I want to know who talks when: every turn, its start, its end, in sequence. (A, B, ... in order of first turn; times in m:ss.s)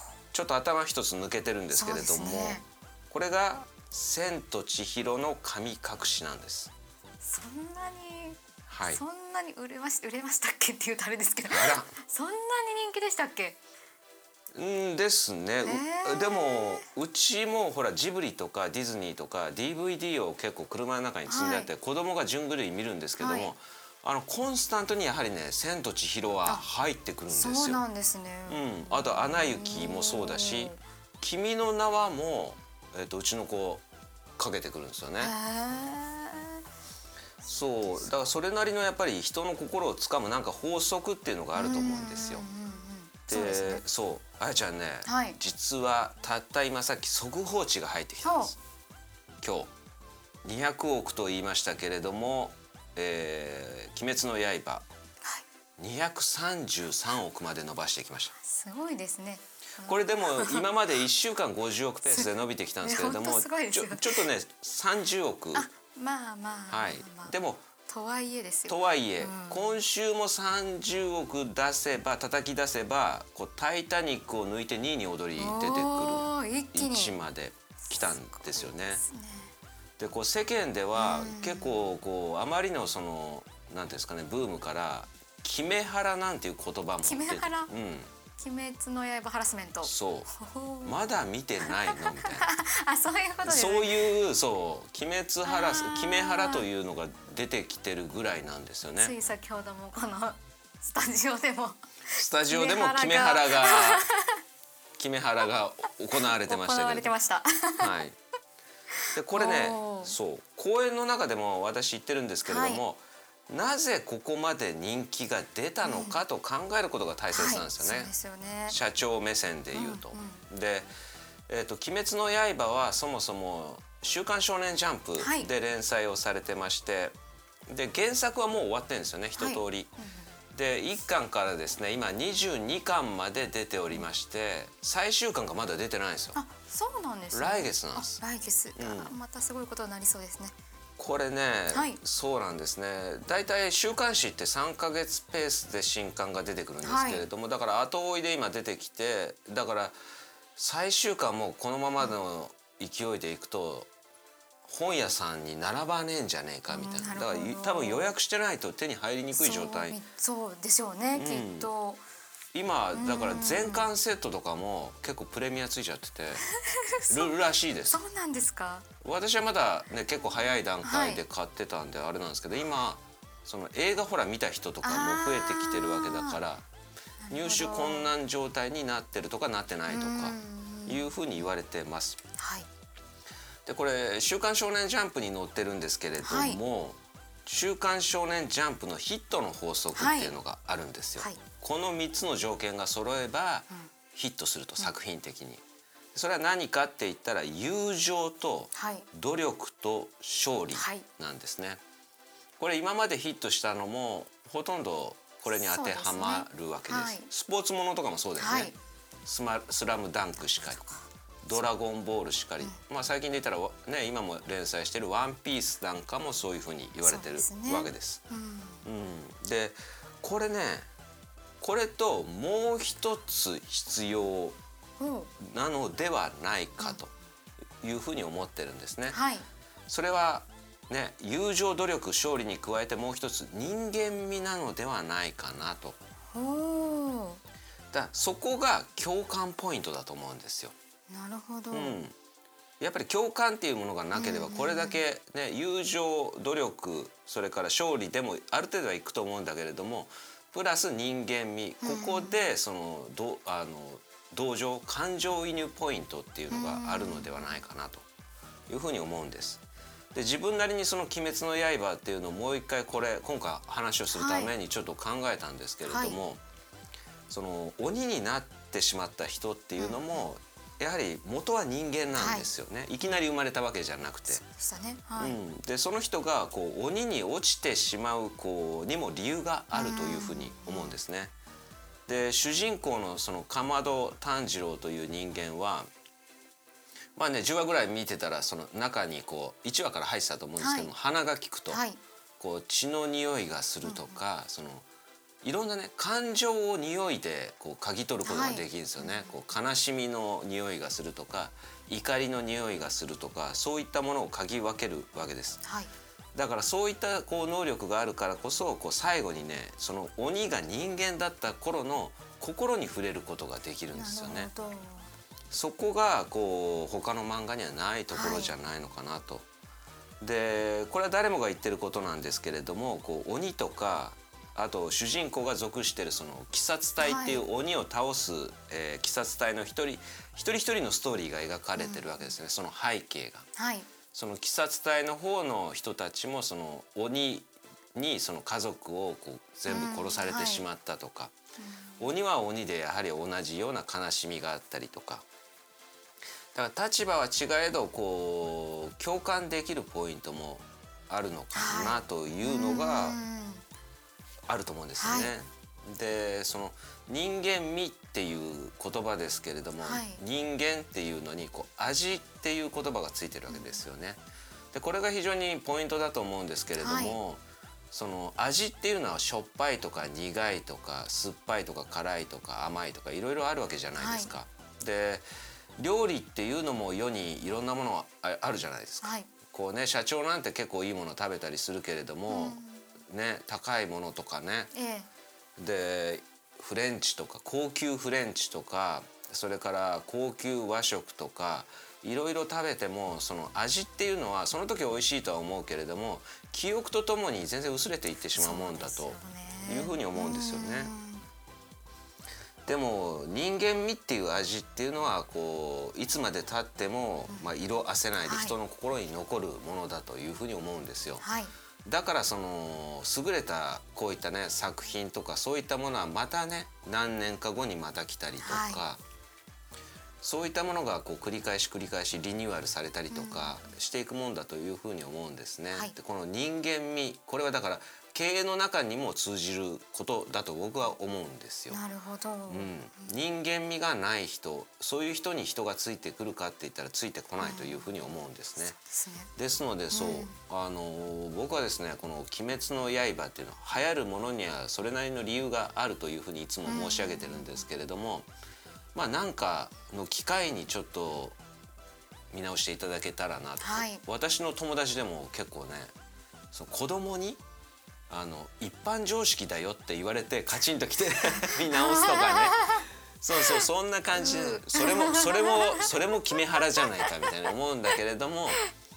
0:00.3-0:06.7 A
0:01.7-0:02.6 B
0:07.2-0:13.6 B
0:08.7-0:09.0 A
0:11.5-0:11.9 A
0:14.5-0:27.8 A
0:15.6-0:16.9 B
0:21.3-0:21.7 B
0:23.2-0:23.5 B
0:27.3-0:30.8 B
0:28.5-0:33.8 A
0:34.4-0:35.3 A
0:35.2-0:36.6 B
0:37.4-0:42.4 A
0:41.5-0:43.8 B
0:43.3-0:48.6 A
0:45.0-0:45.4 B
0:48.2-0:48.5 B
0:49.4-0:49.7 A
0:50.4-0:54.8 A
0:55.8-0:58.3 A
0:58.3-1:00.6 B
0:59.8-1:05.7 A
1:02.8-1:04.3 B
1:05.5-1:09.7 B
1:06.7-1:07.6 A
1:08.7-1:19.0 A
1:15.4-1:17.1 B
1:17.8-1:19.5 B
1:20.0-1:28.1 A
1:20.9-1:21.9 B
1:27.0-1:27.7 B
1:28.4-1:31.0 B
1:29.8-1:30.3 A
1:30.8-1:32.5 A
1:31.6-1:34.1 B
1:33.4-1:39.1 A
1:35.4-1:36.7 B
1:39.0-1:44.4 B
1:42.1-1:44.0 A
1:45.0-1:47.1 A
1:46.2-1:47.9 B
1:47.8-1:48.2 A
1:49.1-1:58.1 A
1:49.3-1:50.2 B
1:52.4-1:52.8 B
1:55.8-1:56.1 B
1:57.3-1:58.8 B
1:58.7-2:00.9 A
1:59.7-2:00.4 B
2:01.5-2:07.1 A
2:05.2-2:05.5 B
2:07.7-2:09.9 A
2:09.4-2:10.3 B
2:10.5-2:16.4 A
2:16.3-2:20.6 B
2:17.3-2:18.2 A
2:18.8-2:19.1 A
2:21.0-2:29.9 A
2:21.7-2:22.0 B
2:26.8-2:27.3 B
2:30.6-2:33.9 A
2:34.6-2:40.0 A
2:36.7-2:38.1 B
2:39.3-2:42.0 B
2:41.1-2:41.7 A
2:42.5-2:46.4 A
2:42.9-2:43.9 B
2:46.7-2:47.3 B
2:47.1-2:48.0 A
2:47.9-2:48.9 B
2:49.0-2:56.6 A
2:50.8-2:51.2 B
2:54.8-2:56.4 B
2:57.2-2:58.1 B
2:57.3-3:02.2 A
2:59.9-3:01.1 B
3:02.4-3:02.7 B
3:03.6-3:15.6 A
3:06.2-3:06.6 B
3:09.9-3:10.4 B
3:16.1-3:21.8 A
3:18.7-3:19.1 B
3:20.7-3:21.0 B
3:22.6-3:28.7 A
3:25.5-3:27.3 B
3:28.4-3:28.7 B
3:29.2-3:30.8 A
3:30.6-3:30.9 B
3:31.4-3:38.2 A
3:37.0-3:38.8 B
3:38.8-3:40.8 A
3:41.6-3:44.6 A
3:45.0-3:45.3 B
3:45.4-3:47.1 A
3:47.8-3:49.2 A
3:49.1-3:49.4 B
3:49.9-3:56.0 A
3:56.3-3:57.4 B
3:57.9-4:00.7 A
4:01.1-4:02.0 B
4:01.7-4:02.1 A
4:02.8-4:18.0 A
4:04.1-4:05.0 B
4:11.8-4:12.4 B
4:16.5-4:17.5 B
4:18.7-4:19.6 A
4:20.1-4:26.4 A
4:24.1-4:24.5 B
4:25.8-4:26.2 B
4:27.3-4:34.4 A
4:29.8-4:30.3 B
4:32.2-4:32.5 B
4:34.3-4:35.4 B
4:35.2-4:41.3 A
4:39.7-4:41.0 B
4:42.1-4:45.9 A
4:47.2-4:51.8 A
4:50.6-4:50.9 B
4:51.7-4:52.0 B
4:52.4-4:54.8 A
4:53.8-4:54.2 B
4:55.4-5:05.6 A
4:58.2-4:59.3 B
5:05.6-5:05.9 B
5:06.3-5:14.5 A
5:13.9-5:15.1 B
5:15.5-5:19.4 A
5:18.1-5:18.5 B
5:20.2-5:33.5 A
5:27.0-5:27.4 B
5:31.8-5:32.3 B
5:33.6-5:33.9 B
5:34.1-5:41.3 A
5:39.7-5:40.6 B
5:41.6-5:42.1 B
5:42.0-5:45.2 A
5:46.5-5:53.2 A
5:51.5-5:53.6 B
5:54.5-6:04.2 A
5:55.0-5:55.3 B
5:59.8-6:00.2 B
6:03.5-6:03.8 B
6:04.7-6:15.2 A
6:06.8-6:07.2 B
6:14.0-6:14.3 B
6:15.8-6:24.7 A
6:19.0-6:19.3 B
6:22.3-6:22.9 B
6:24.7-6:25.1 B
6:25.6-6:40.9 A
6:38.4-6:41.2 B
6:42.6-6:51.2 A
6:48.2-6:48.5 B
6:51.2-6:51.5 B
6:51.8-6:59.0 A
6:58.4-6:58.8 B
7:00.2-7:11.8 A
7:03.1-7:03.6 B
7:11.7-7:13.1 B
7:12.5-7:18.8 A
7:17.4-7:17.9 B
7:18.7-7:19.3 B
7:19.4-7:28.3 A
7:19.9-7:20.3 B
7:26.6-7:27.6 B
7:28.9-7:31.4 A
7:32.3-7:35.9 A
7:33.6-7:34.0 B
7:36.5-7:37.4 A
7:38.1-7:48.6 A
7:41.8-7:42.8 B
7:44.2-7:45.9 B
7:46.6-7:47.3 B